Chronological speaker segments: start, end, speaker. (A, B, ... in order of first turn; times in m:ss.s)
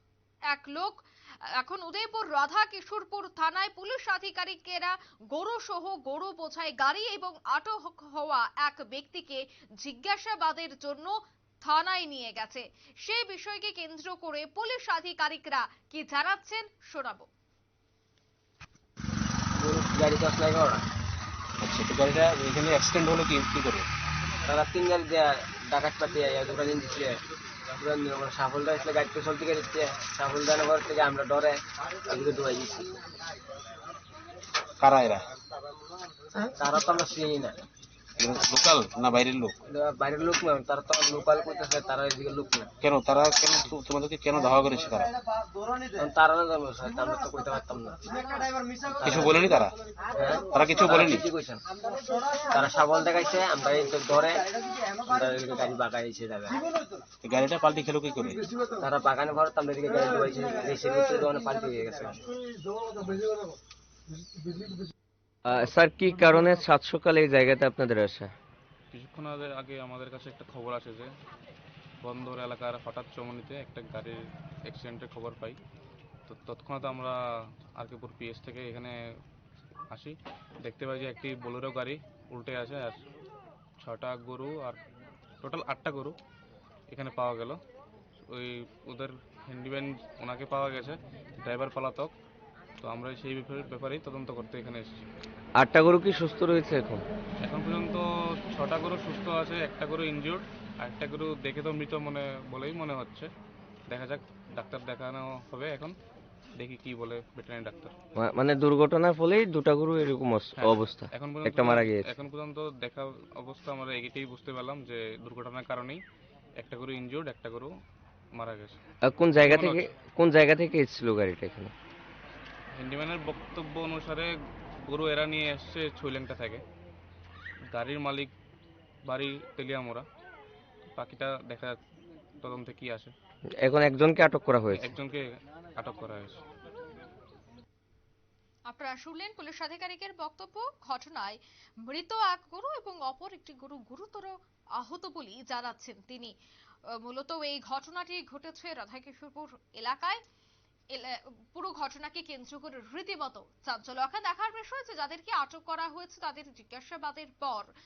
0:00.5-0:01.0 A
0:01.5-0:17.3 A
0:19.6-0:20.8 B
0:21.6-0:23.8 C
0:24.4-0:27.2 B
0:27.7-0:33.0 B
0:34.8-0:35.2 C
0:36.5-0:37.6 B
0:38.2-0:39.5 C
0:39.6-0:42.7 B
0:42.9-0:45.1 C
0:46.0-0:48.0 B
0:48.8-0:49.6 B
0:49.1-0:49.6 C
0:50.1-0:51.6 B
0:50.6-0:51.2 C
0:52.5-0:56.6 B
0:57.3-0:58.4 C
0:58.8-1:02.3 B
1:05.4-1:08.3 D
1:08.9-1:11.1 E
1:12.0-1:15.6 E
1:16.3-1:17.2 E
1:17.8-1:19.0 E
1:19.9-1:23.0 E
1:23.8-1:24.8 E
1:25.4-1:26.1 E
1:26.9-1:27.6 E
1:28.3-1:32.1 E
1:32.8-1:35.1 E
1:35.6-1:37.0 D
1:37.4-1:43.3 E
1:43.9-1:45.9 E
1:46.6-1:47.9 E
1:48.2-1:52.1 D
1:50.6-1:56.0 E
1:56.6-1:57.7 E
1:58.4-1:58.8 E
1:59.0-2:01.7 D
1:59.4-1:59.9 E
2:02.7-2:04.3 E
2:04.8-2:06.6 E
2:07.7-2:08.3 E
2:09.0-2:10.0 E
2:10.9-2:11.8 E
2:12.4-2:13.1 E
2:13.6-2:15.0 D
2:14.7-2:16.4 E
2:18.7-2:26.3 A
2:27.0-2:30.2 A
2:30.9-2:37.7 A